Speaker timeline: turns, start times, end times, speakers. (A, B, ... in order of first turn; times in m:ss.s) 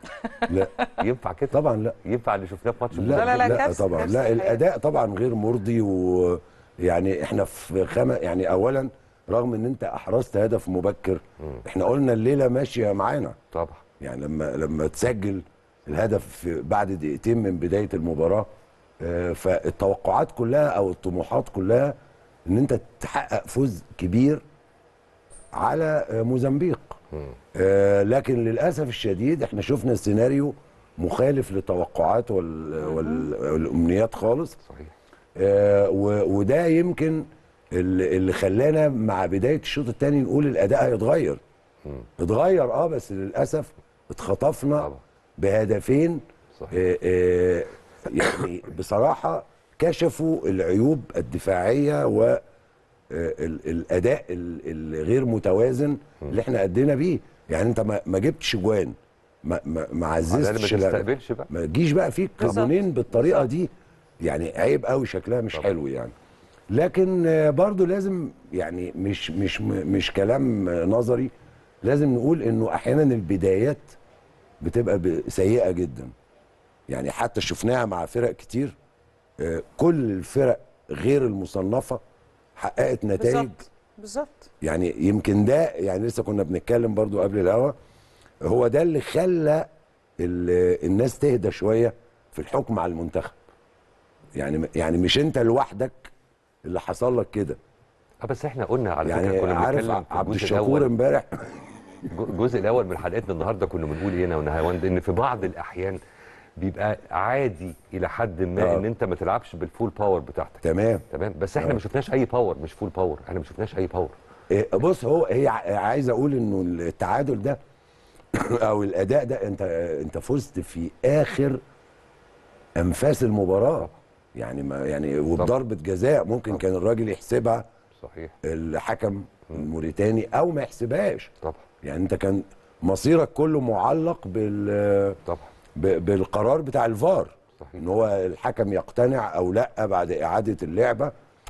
0:00.2-0:01.0 A
0:00.5-0:00.8 B
0:01.0-0:03.8 C
0:01.5-0:02.0 B
0:02.9-0:13.4 B
0:03.1-0:04.6 A
0:13.5-0:13.8 C
0:14.0-0:18.4 B
0:19.0-0:21.9 B
0:22.5-0:24.4 B
0:25.6-0:27.0 B
0:27.5-0:34.6 B
0:32.8-0:33.3 A
0:34.6-0:34.9 C
0:35.4-0:41.4 B
0:42.2-0:52.4 B
0:46.5-0:46.8 C
0:53.1-1:03.7 B
1:00.3-1:01.5 C
1:02.4-1:03.5 A
1:04.2-1:06.1 B
1:06.7-1:11.3 B
1:11.8-1:14.0 B
1:14.6-1:16.1 B
1:16.9-1:18.7 B
1:19.4-1:22.0 B
1:22.6-1:23.6 B
1:23.2-1:24.5 A
1:24.6-1:27.7 B
1:28.4-1:29.6 B
1:30.2-1:33.4 B
1:34.4-1:36.1 B
1:36.6-1:37.6 B
1:38.2-1:40.9 C
1:39.0-1:41.9 B
1:42.1-1:46.0 C
1:46.6-1:54.2 C
1:48.6-1:48.9 B
1:50.6-1:51.0 B
1:54.5-1:57.6 B
1:58.3-2:01.6 B
2:02.8-2:07.6 B
2:07.9-2:08.4 C
2:08.4-2:11.3 B
2:11.8-2:15.2 B
2:15.8-2:21.1 B
2:17.6-2:17.8 C